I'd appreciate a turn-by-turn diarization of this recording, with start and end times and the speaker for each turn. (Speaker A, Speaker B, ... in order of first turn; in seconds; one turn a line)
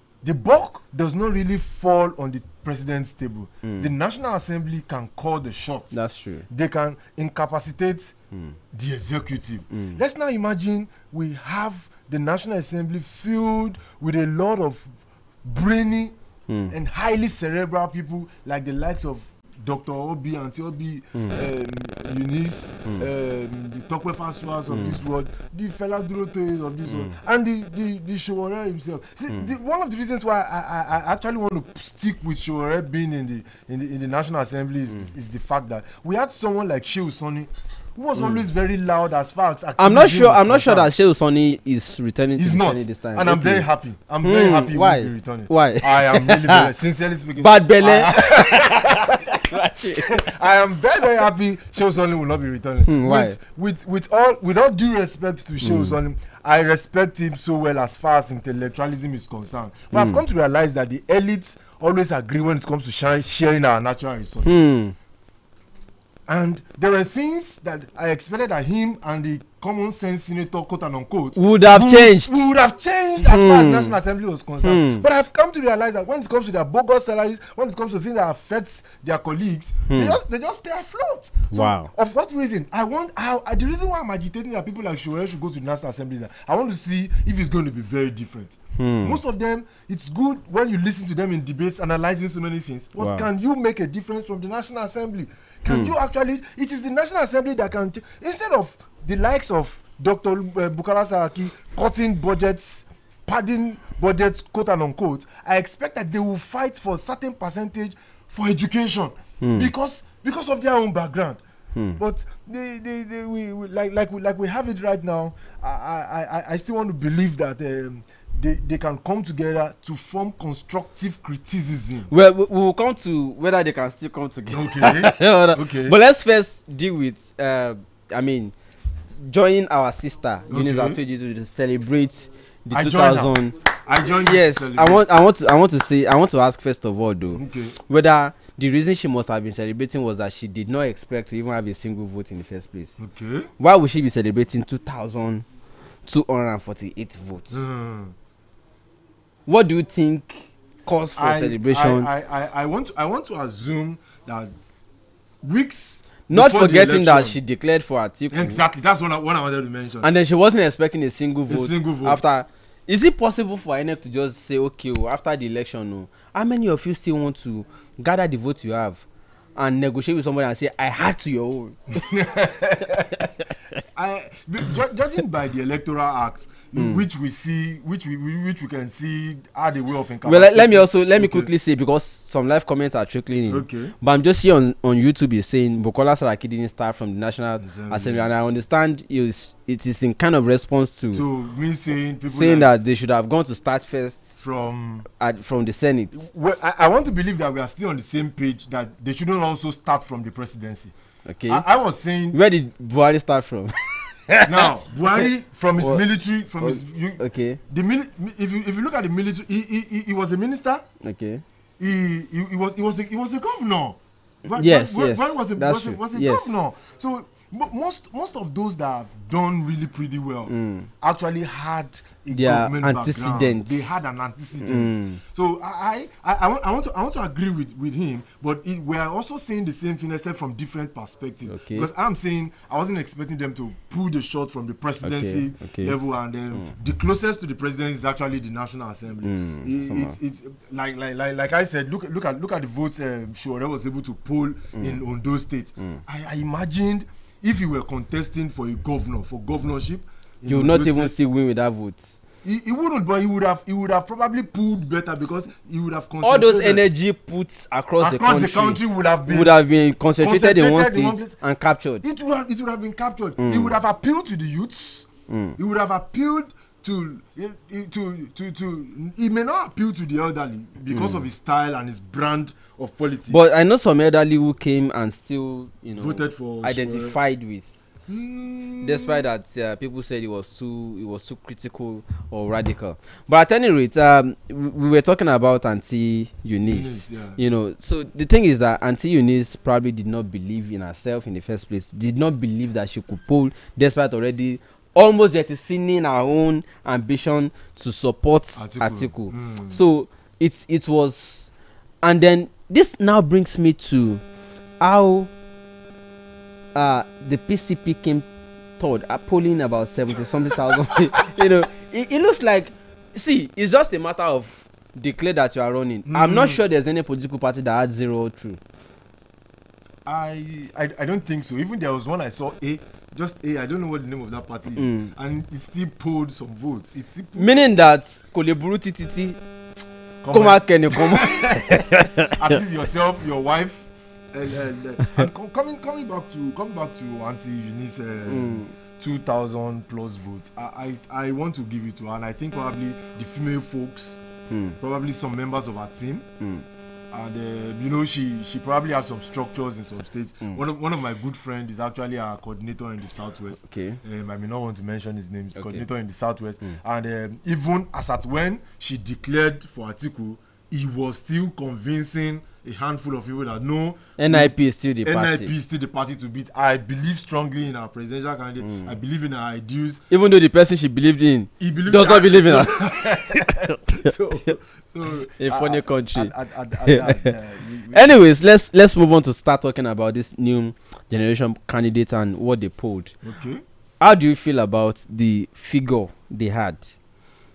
Speaker A: 0.2-6.0
Speaker B: 3.6-3.9
Speaker B: 5.9-6.5
Speaker A: 6.5-8.1
Speaker B: 8.3-8.6
Speaker A: 8.7-14.9
Speaker B: 9.7-10.0
Speaker A: 15.4-16.1
Speaker B: 16.5-16.8
Speaker A: 16.7-40.9
Speaker B: 21.1-21.4
Speaker B: 24.7-25.0
Speaker B: 26.9-27.1
Speaker B: 38.2-38.4
Speaker B: 39.8-43.7
Speaker A: 42.4-49.4
Speaker B: 44.2-46.7
Speaker B: 47.4-50.2
Speaker A: 50.0-64.6
Speaker B: 52.9-53.4
Speaker B: 55.6-56.0
Speaker B: 59.9-60.2
Speaker B: 64.5-65.0
Speaker A: 66.3-111.4
Speaker B: 71.4-72.3
Speaker B: 73.2-74.0
Speaker B: 74.6-75.0
Speaker B: 79.9-80.2
Speaker B: 81.5-81.9
Speaker B: 88.8-89.2
Speaker B: 93.0-93.3
Speaker B: 109.4-109.7
Speaker B: 111.8-112.0
Speaker A: 112.0-122.1
Speaker B: 122.1-128.5
Speaker A: 124.5-126.0
Speaker B: 129.2-133.6
Speaker A: 130.5-131.0
Speaker A: 132.7-135.1
Speaker B: 134.2-143.0
Speaker A: 137.3-137.8
Speaker A: 143.0-143.5
Speaker B: 143.6-145.4
Speaker B: 146.1-147.6
Speaker A: 147.5-148.2
Speaker B: 149.5-152.1
Speaker A: 151.2-154.5
Speaker A: 155.4-157.4
Speaker B: 156.3-158.6
Speaker A: 158.3-160.1
Speaker B: 160.0-169.0
Speaker A: 161.5-162.2
Speaker B: 169.6-172.0
Speaker A: 171.9-173.3
Speaker A: 173.9-181.5
Speaker B: 176.8-177.1
Speaker B: 180.2-191.3
Speaker A: 183.5-183.9
Speaker A: 187.6-188.3
Speaker A: 191.1-192.7
Speaker B: 192.3-194.3
Speaker A: 194.4-195.1
Speaker B: 195.2-196.1
Speaker A: 196.1-200.9
Speaker B: 201.3-201.7
Speaker A: 201.5-202.4
Speaker B: 202.3-203.7
Speaker B: 204.3-205.2
Speaker A: 204.4-210.8
Speaker B: 205.8-206.0
Speaker B: 206.6-207.6
Speaker B: 211.0-211.4
Speaker A: 211.8-251.2
Speaker B: 214.5-216.5
Speaker B: 220.5-220.9
Speaker B: 222.3-223.7
Speaker B: 224.6-225.2
Speaker B: 231.5-231.9
Speaker B: 235.0-236.0
Speaker B: 239.2-240.2
Speaker B: 244.8-245.0
Speaker B: 250.5-252.1
Speaker A: 252.4-256.9
Speaker B: 256.2-262.0
Speaker A: 258.0-259.6
Speaker A: 260.2-261.4
Speaker A: 262.0-273.4
Speaker B: 263.4-263.7
Speaker B: 265.3-265.6
Speaker B: 270.9-271.2
Speaker B: 273.3-277.7
Speaker A: 275.9-277.2
Speaker A: 278.1-279.2
Speaker B: 278.8-301.5
Speaker A: 286.6-287.4
Speaker A: 298.6-299.8
Speaker B: 302.0-304.2
Speaker B: 304.8-305.3
Speaker B: 306.8-308.3
Speaker B: 308.8-318.6
Speaker A: 310.5-311.2
Speaker A: 316.1-316.6
Speaker A: 320.1-327.8
Speaker B: 324.8-325.1
Speaker B: 327.4-329.4
Speaker A: 330.2-344.2
Speaker B: 330.3-332.3
Speaker B: 338.3-338.7
Speaker B: 344.5-344.8
Speaker A: 344.8-346.3
Speaker B: 346.4-346.7
Speaker A: 347.1-370.0
Speaker B: 353.6-354.0
Speaker B: 355.6-355.9
Speaker B: 364.2-365.5
Speaker B: 368.6-368.9
Speaker B: 370.1-374.5
Speaker A: 371.6-378.2
Speaker B: 375.4-376.3
Speaker B: 376.8-377.3
Speaker B: 377.9-383.1
Speaker A: 383.2-383.6
Speaker B: 384.0-386.9